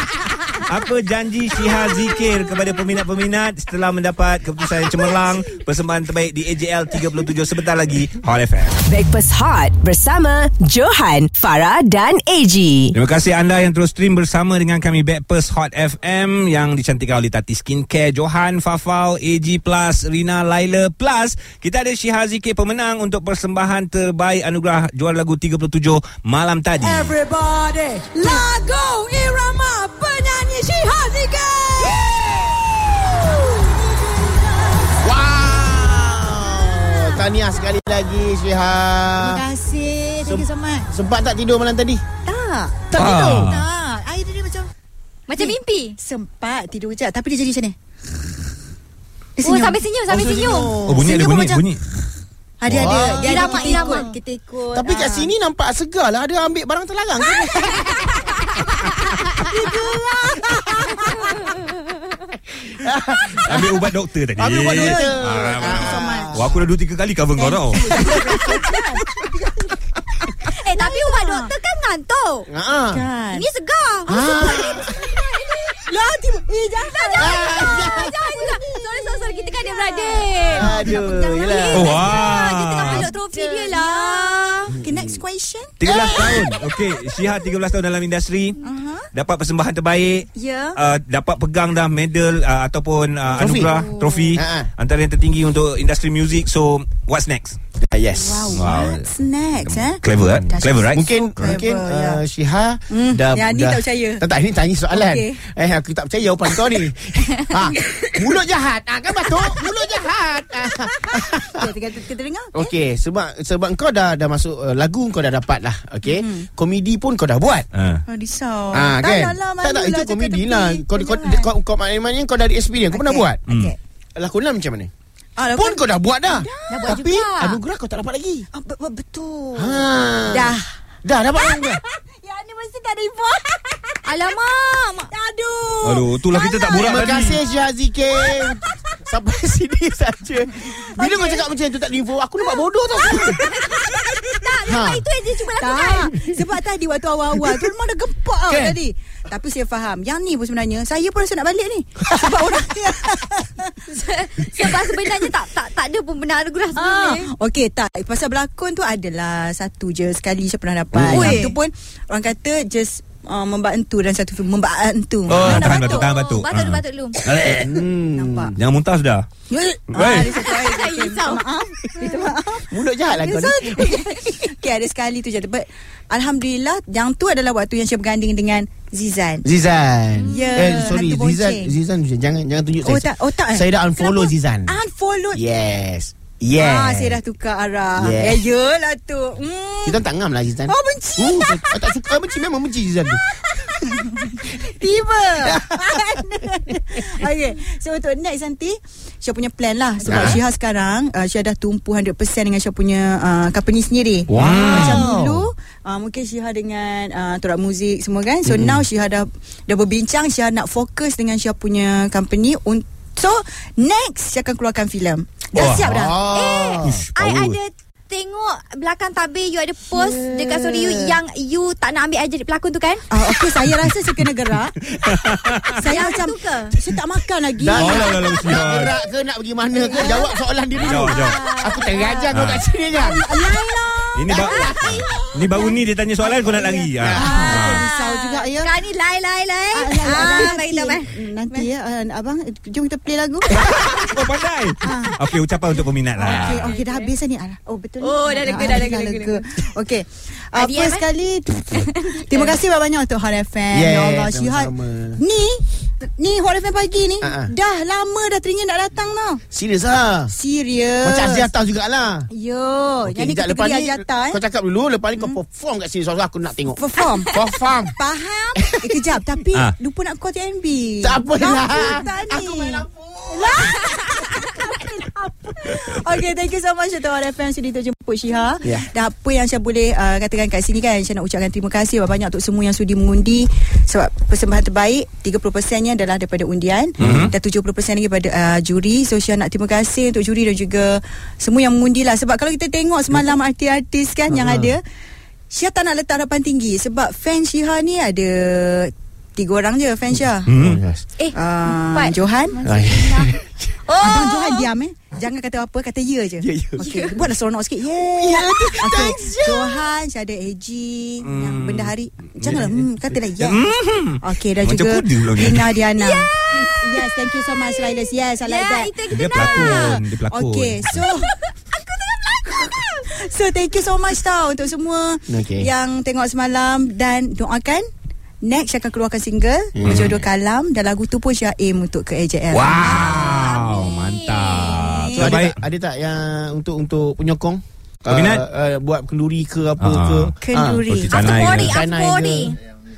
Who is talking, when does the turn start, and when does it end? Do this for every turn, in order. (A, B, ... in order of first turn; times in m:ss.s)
0:00.6-0:08.8 A
0:08.8-0:13.0 B
0:12.9-0:27.2 A
0:26.8-0:35.0 C
0:35.0-0:39.4 D
0:36.7-0:37.3 C
0:39.2-0:40.9 C
0:40.2-0:42.0 D
0:42.3-0:44.7 C
0:42.9-0:43.5 D
0:42.9-0:43.7 A
0:45.3-0:46.0 E
0:45.3-0:47.8 C
0:49.4-0:49.8 C
0:49.4-0:50.8 E
0:50.1-0:51.3 D
0:50.8-0:51.8 A
0:51.0-0:51.7 C
0:52.6-0:55.3 C
0:52.7-0:53.0 A
0:52.7-0:54.0 D
0:52.9-0:54.2 E
0:54.7-0:58.4 D
0:59.2-1:01.3 C
1:02.7-1:03.8 D
1:03.5-1:08.0 A
1:04.4-1:06.6 D
1:04.7-1:06.4 C
1:07.4-1:11.5 C
1:08.0-1:08.4 D
1:10.5-1:12.5 E
1:12.5-1:13.0 D
1:12.9-1:13.5 C
1:13.3-1:15.9 E
1:14.1-1:14.9 D
1:14.2-1:26.6 C
1:16.9-1:20.8 E
1:17.2-1:18.1 D
1:20.5-1:22.1 D
1:21.6-1:24.7 E
1:21.7-1:23.1 A
1:24.8-1:25.2 D
1:25.8-1:28.6 A
1:25.8-1:26.5 D
1:28.6-1:29.1 C
1:29.1-1:37.6 A
1:30.4-1:30.8 C
1:33.4-1:33.8 D
1:33.6-1:34.3 C
1:34.3-1:34.7 D
1:37.8-1:38.7 D
1:38.1-1:42.2 C
1:38.5-1:39.1 A
1:39.6-1:41.5 A
1:40.4-1:51.6 D
1:42.9-1:44.2 C
1:44.9-1:45.4 C
1:49.4-1:50.1 C
1:50.7-1:52.7 C
1:52.6-1:57.7 D
1:56.1-1:56.5 C
1:57.7-1:58.0 A
1:58.1-2:01.5 C
1:58.7-2:03.4 D
2:02.9-2:03.8 C
2:03.5-2:03.7 A
2:04.2-2:04.9 D
2:05.4-2:07.6 C
2:05.5-2:08.5 D
2:06.7-2:07.4 E
2:08.5-2:10.8 C
2:09.6-2:11.8 D
2:11.5-2:14.0 C
2:14.0-2:15.1 E
2:15.1-2:17.4 C
2:15.8-2:17.4 A
2:16.8-2:23.4 D
2:18.3-2:18.7 C
2:20.7-2:21.3 C
2:21.0-2:21.4 E
2:23.0-2:26.2 E
2:23.2-2:24.0 C
2:24.7-2:25.0 D
2:25.3-2:33.9 C
2:28.5-2:28.8 D
2:33.9-2:37.3 E
2:34.8-2:35.3 C
2:36.8-2:46.3 C
2:41.0-2:41.6 E
2:41.1-2:41.4 D
2:45.3-2:45.7 D
2:45.3-2:47.7 A
2:45.5-2:47.3 E
2:47.3-2:48.6 D
2:48.1-2:48.6 C
2:48.6-2:49.2 A
2:49.5-2:59.5 C
2:49.9-2:50.4 A
2:50.3-2:52.3 E
2:52.0-2:54.2 D
2:59.4-3:04.8 D
3:00.2-3:00.8 E
3:00.3-3:01.8 C
3:02.8-3:05.4 C
3:05.3-3:07.2 D
3:06.6-3:10.0 C
3:08.0-3:08.4 D
3:09.8-3:13.2 D
3:10.7-3:11.6 C
3:13.2-3:36.2 C
3:15.4-3:16.2 D
3:20.1-3:20.4 D
3:24.3-3:25.5 D
3:24.4-3:25.1 A
3:28.5-3:28.8 D
3:35.6-3:36.1 A
3:35.6-3:37.0 D
3:36.3-3:43.1 E
3:36.8-3:37.6 A
3:39.9-3:41.2 C
3:43.1-3:44.9 C
3:44.9-3:45.8 A
3:45.7-3:48.6 C
3:45.8-3:46.8 E
3:47.6-3:53.2 D
3:47.8-3:48.9 A
3:49.7-3:50.2 C
3:49.9-3:52.3 E
3:50.8-3:51.4 A
3:51.2-3:51.7 C
3:52.3-3:52.7 A
3:52.9-3:58.7 C
3:53.3-3:54.7 E
3:54.1-3:57.9 A
3:54.3-3:55.1 D
3:57.0-3:57.5 D
3:57.2-4:01.7 E
3:59.7-4:04.0 C
4:03.6-4:06.8 A
4:04.8-4:05.2 C
4:06.1-4:19.4 C
4:06.3-4:07.1 E
4:08.0-4:09.7 E
4:10.6-4:11.1 E
4:11.7-4:12.6 E
4:13.7-4:15.2 D
4:17.2-4:17.5 D
4:19.5-4:20.3 D
4:20.3-4:21.5 C
4:21.0-4:22.3 D
4:22.3-4:24.4 C
4:23.0-4:28.0 D
4:26.8-4:54.8 C
4:28.6-4:28.9 D
4:31.0-4:33.6 D
4:47.0-4:47.3 A
4:47.0-4:47.3 D
4:54.3-4:54.7 D
4:55.5-5:00.5 C
5:00.5-5:00.8 A
5:00.5-5:01.0 D
5:01.2-5:04.7 E
5:01.3-5:02.6 C
5:02.6-5:03.4 D
5:04.0-5:27.9 C
5:06.4-5:06.8 D
5:06.8-5:07.2 E
5:08.2-5:09.8 D
5:11.2-5:15.8 A
5:16.0-5:20.0 E
5:19.1-5:21.1 A
5:25.3-5:25.7 D
5:28.4-5:33.0 C
5:29.8-5:30.2 D
5:29.8-5:30.2 A
5:32.5-5:35.6 A
5:32.7-5:34.8 E
5:34.6-5:35.3 C
5:35.2-5:40.8 D
5:38.1-5:38.4 A
5:39.8-5:40.4 A
5:40.4-5:41.6 C
5:40.9-5:41.9 A
5:41.1-5:42.6 E
5:41.6-5:42.6 D